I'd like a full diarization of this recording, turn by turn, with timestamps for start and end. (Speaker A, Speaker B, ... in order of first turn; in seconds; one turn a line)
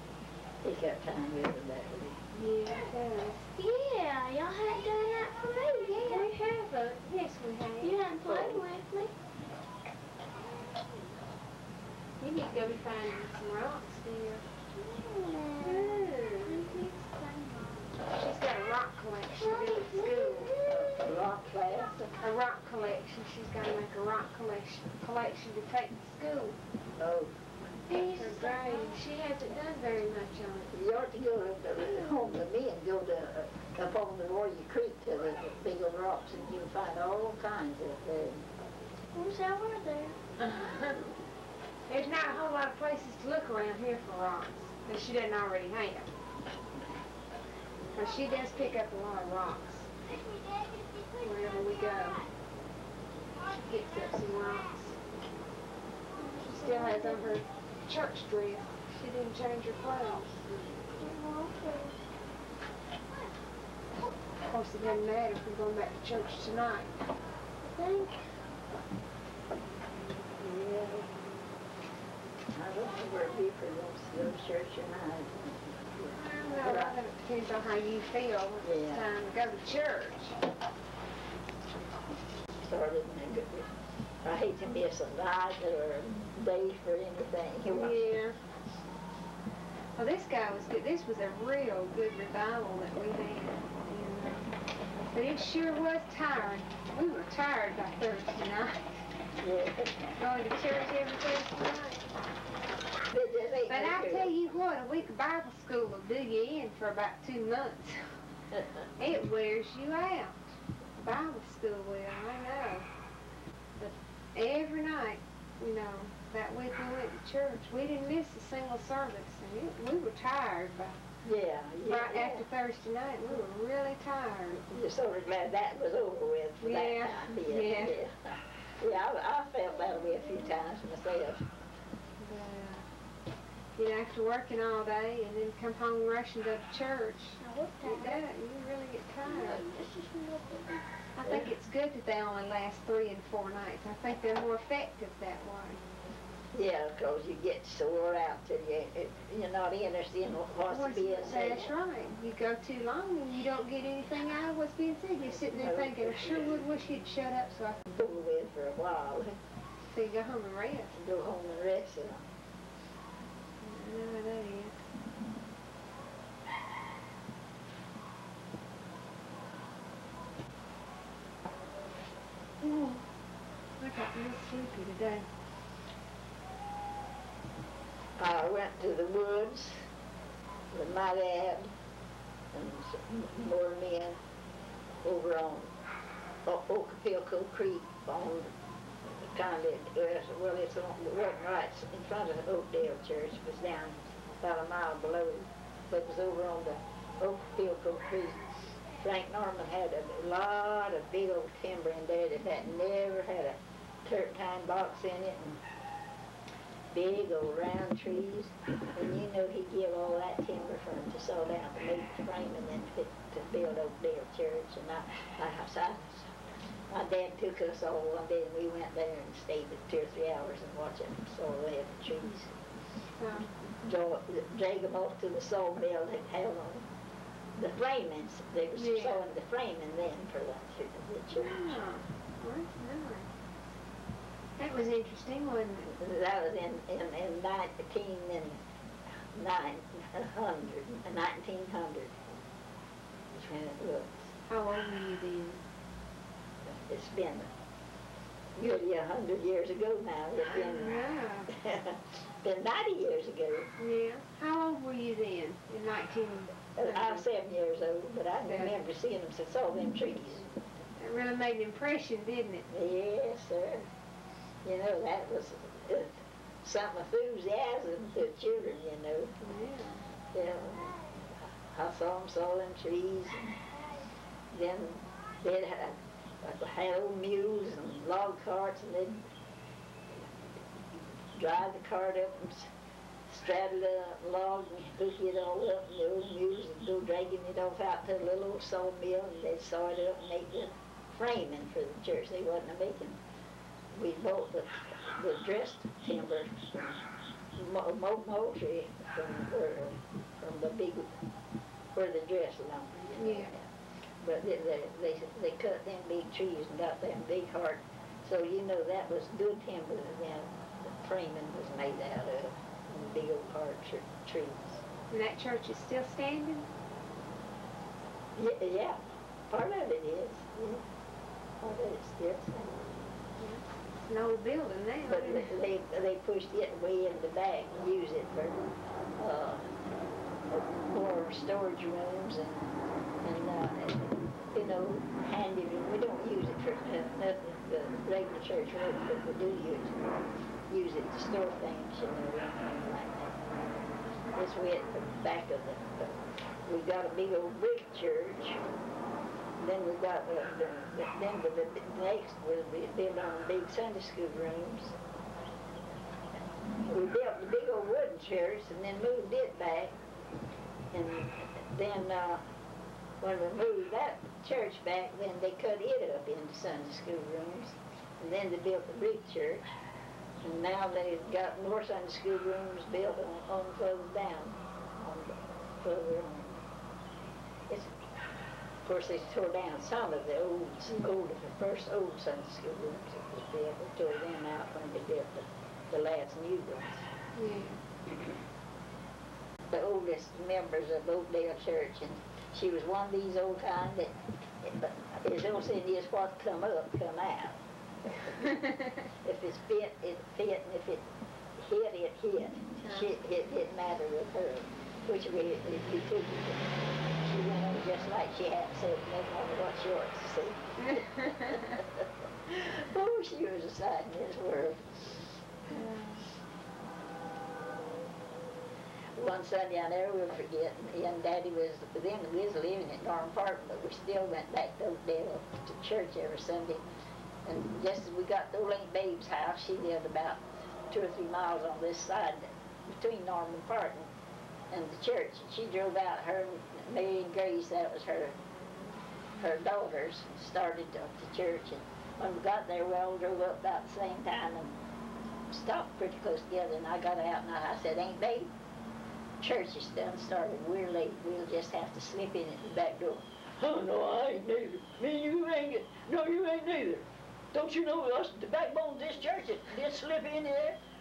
Speaker A: 0.6-2.2
Speaker B: 2.3-3.5
Speaker C: 3.5-6.6
Speaker B: 5.9-8.0
Speaker C: 7.8-9.1
Speaker A: 8.3-8.6
Speaker B: 12.2-14.4
Speaker C: 14.8-17.9
Speaker B: 15.6-16.8
Speaker B: 18.1-20.6
Speaker C: 19.4-20.9
Speaker A: 20.6-22.1
Speaker B: 22.2-26.6
Speaker A: 27.0-27.3
Speaker B: 27.9-30.7
Speaker C: 27.9-29.0
Speaker A: 30.7-38.5
Speaker C: 39.1-40.2
Speaker B: 40.4-41.0
Speaker B: 41.9-46.1
Speaker B: 47.9-49.9
Speaker B: 51.2-52.2
Speaker B: 53.6-55.0
Speaker C: 56.2-57.4
Speaker B: 56.4-60.3
Speaker C: 60.9-62.0
Speaker B: 64.4-67.0
Speaker B: 67.6-68.2
Speaker A: 70.4-71.1
Speaker A: 72.5-77.0
Speaker B: 76.1-80.4
Speaker A: 78.6-79.1
Speaker A: 82.6-83.7
Speaker A: 84.2-88.2
Speaker B: 87.7-88.4
Speaker B: 90.0-94.5
Speaker B: 95.1-99.1
Speaker A: 99.4-100.0
Speaker B: 100.2-102.1
Speaker A: 103.1-104.3
Speaker B: 103.7-108.1
Speaker B: 109.0-112.9
Speaker B: 113.8-121.0
Speaker A: 121.2-122.5
Speaker B: 121.9-124.7
Speaker A: 124.7-131.5
Speaker B: 126.6-128.0
Speaker B: 132.2-132.8
Speaker B: 133.8-139.7
Speaker C: 137.4-138.2
Speaker C: 139.2-141.4
Speaker B: 141.2-145.8
Speaker A: 146.5-151.7
Speaker B: 150.7-157.9
Speaker A: 155.2-156.5
Speaker A: 157.9-159.3
Speaker B: 159.9-160.9
Speaker A: 160.9-162.2
Speaker B: 163.6-164.8
Speaker B: 173.8-175.3
Speaker A: 178.2-179.9
Speaker A: 180.7-181.7
Speaker A: 182.5-184.2
Speaker A: 185.0-185.7
Speaker A: 186.5-188.5
Speaker A: 189.1-205.6
Speaker A: 206.9-216.3
Speaker A: 216.9-222.6
Speaker B: 223.2-223.5
Speaker A: 223.7-226.9
Speaker A: 227.6-231.8
Speaker B: 228.7-229.3
Speaker B: 231.3-233.3
Speaker B: 234.6-235.9
Speaker A: 235.9-238.6
Speaker A: 239.3-242.2
Speaker A: 243.3-244.3
Speaker B: 244.5-245.6
Speaker A: 246.7-247.5
Speaker A: 248.6-253.7
Speaker B: 250.4-251.5
Speaker B: 253.8-257.3
Speaker A: 256.8-260.5
Speaker B: 258.4-258.7
Speaker B: 261.0-262.7
Speaker A: 262.7-263.9
Speaker A: 264.6-269.4
Speaker B: 269.4-270.1
Speaker A: 270.3-273.6
Speaker A: 274.5-279.3
Speaker A: 281.4-282.7
Speaker A: 283.3-293.2
Speaker A: 293.9-297.0
Speaker A: 297.6-301.1
Speaker A: 301.9-303.7
Speaker B: 303.1-303.6
Speaker A: 304.2-314.8
Speaker B: 315.1-316.7
Speaker A: 318.4-320.9
Speaker A: 321.6-322.8
Speaker B: 323.4-325.5
Speaker A: 325.1-329.7
Speaker A: 330.5-332.7
Speaker A: 333.2-339.9
Speaker A: 340.7-343.4
Speaker A: 344.3-348.6
Speaker A: 349.6-355.0
Speaker A: 356.8-359.9
Speaker A: 360.9-362.4
Speaker A: 363.2-369.6
Speaker A: 370.4-376.6
Speaker A: 378.8-387.1
Speaker B: 387.4-387.8
Speaker A: 389.7-397.6
Speaker A: 398.4-415.9
Speaker B: 411.0-411.6
Speaker B: 415.8-416.2
Speaker A: 419.2-426.8
Speaker A: 427.5-434.1
Speaker A: 434.7-438.4
Speaker A: 439.4-444.8
Speaker A: 445.5-448.5
Speaker A: 449.4-460.8